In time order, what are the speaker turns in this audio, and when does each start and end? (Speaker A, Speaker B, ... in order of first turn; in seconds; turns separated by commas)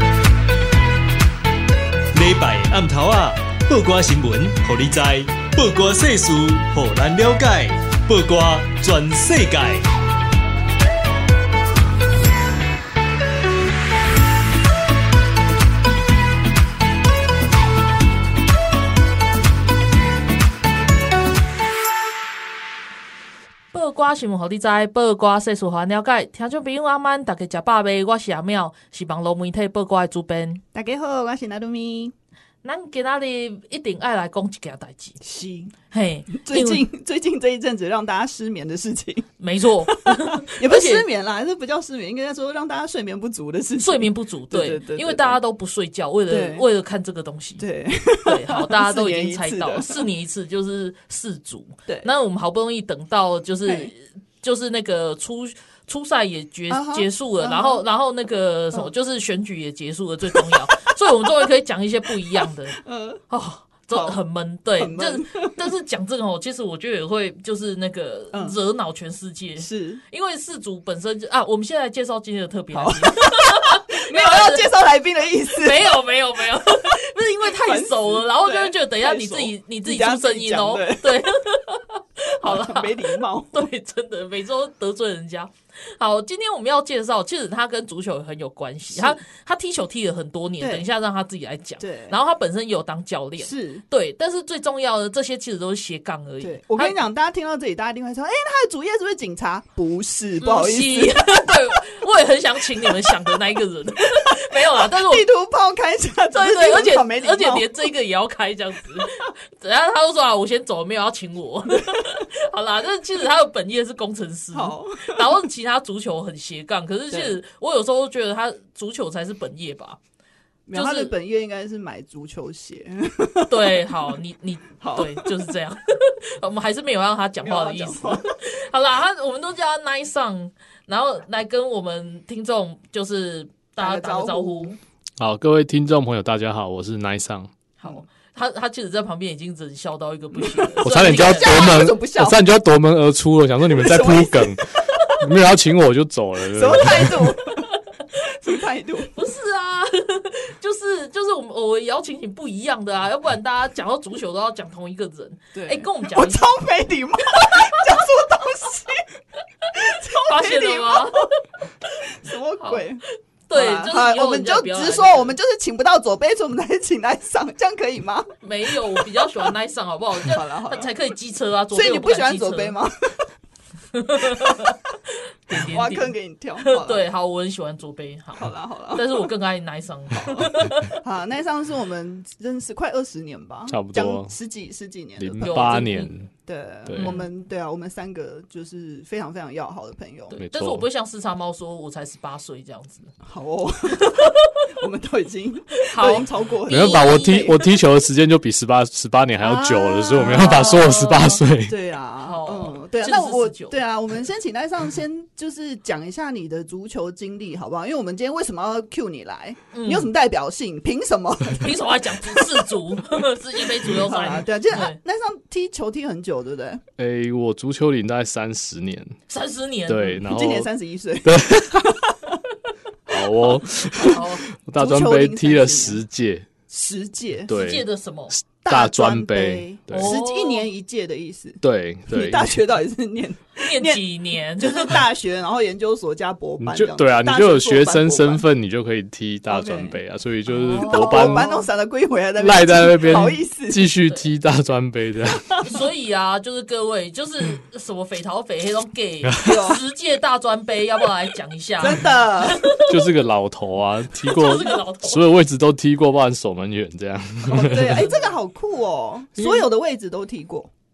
Speaker A: 2.1-9.8, Speaker B: 23.7-30.6, Speaker C: 30.7-32.1, Speaker B: 32.6-35.2, Speaker C: 35.2-35.7, Speaker B: 35.9-36.8, Speaker C: 36.3-39.3, Speaker B: 39.4-41.1, Speaker C: 39.8-45.4, Speaker B: 43.8-47.6, Speaker C: 46.3-46.6, Speaker C: 47.6-50.0, Speaker B: 48.2-62.8, Speaker C: 53.6-53.9, Speaker C: 56.7-57.8, Speaker C: 60.3-60.8, Speaker C: 62.3-63.2, Speaker B: 63.3-74.7, Speaker C: 63.9-64.2, Speaker C: 64.8-65.5, Speaker C: 68.3-68.6, Speaker C: 69.6-70.0, Speaker C: 72.7-76.0, Speaker B: 75.5-97.0, Speaker C: 76.6-81.3, Speaker C: 82.4-83.7, Speaker C: 88.9-89.2, Speaker C: 90.6-90.9, Speaker C: 91.8-92.2, Speaker C: 93.4-93.8, Speaker C: 96.4-101.5, Speaker B: 100.4-105.2, Speaker C: 104.8-107.7, Speaker B: 106.3-120.0, Speaker C: 114.5-115.3, Speaker C: 117.1-117.3, Speaker C: 120.7-123.8, Speaker B: 120.7-121.1, Speaker B: 123.5-134.8, Speaker C: 124.8-125.5, Speaker C: 127.4-128.3, Speaker C: 133.8-134.7, Speaker D: 135.2-137.5, Speaker B: 137.8-141.9, Speaker C: 140.3-142.4, Speaker D: 140.8-147.3, Speaker C: 143.7-144.6, Speaker C: 146.5-147.7, Speaker C: 148.3-149.1, Speaker B: 149.1-156.5, Speaker C: 155.5-159.1, Speaker B: 157.4-157.8, Speaker C: 159.7-161.3, Speaker B: 159.8-161.4, Speaker C: 162.1-168.3, Speaker B: 162.6-162.9, Speaker B: 163.5-165.4, Speaker B: 168.4-172.8, Speaker C: 170.2-171.0, Speaker C: 171.7-173.2, Speaker B: 173.9-174.8, Speaker C: 174.3-174.5, Speaker B: 175.5-181.0, Speaker C: 175.5-177.0, Speaker C: 178.3-179.3, Speaker C: 181.0-185.9, Speaker D: 183.7-184.3, Speaker D: 185.2-186.3, Speaker B: 185.4-186.1, Speaker C: 186.4-190.3, Speaker D: 186.8-187.2, Speaker B: 187.0-187.2, Speaker B: 190.3-193.1, Speaker D: 190.3-190.8, Speaker C: 193.2-197.6, Speaker B: 193.9-194.5, Speaker B: 195.8-197.5, Speaker D: 196.7-201.8, Speaker C: 199.4-200.9, Speaker B: 200.2-201.4, Speaker C: 201.6-212.7, Speaker B: 202.2-203.8, Speaker B: 209.7-210.1, Speaker B: 211.5-215.0, Speaker C: 213.8-216.8, Speaker D: 217.0-219.2, Speaker B: 219.3-220.2, Speaker D: 219.9-220.7, Speaker C: 220.2-222.1, Speaker D: 221.2-222.0, Speaker D: 223.1-226.5, Speaker C: 223.1-224.2, Speaker B: 224.1-224.4, Speaker C: 224.7-226.0, Speaker C: 226.7-227.5, Speaker D: 227.5-230.2, Speaker B: 227.5-228.3, Speaker C: 228.6-238.5, Speaker B: 229.9-230.7, Speaker D: 231.6-232.6, Speaker B: 233.6-235.0, Speaker D: 236.6-241.4, Speaker C: 239.5-240.0, Speaker C: 240.5-243.9, Speaker B: 240.6-241.6, Speaker D: 242.4-245.5, Speaker B: 245.6-252.9, Speaker D: 249.2-249.7, Speaker C: 249.4-249.8, Speaker C: 251.8-252.6, Speaker D: 252.8-258.2, Speaker B: 254.3-255.2, Speaker C: 254.3-254.6, Speaker C: 257.5-260.7, Speaker D: 259.4-259.6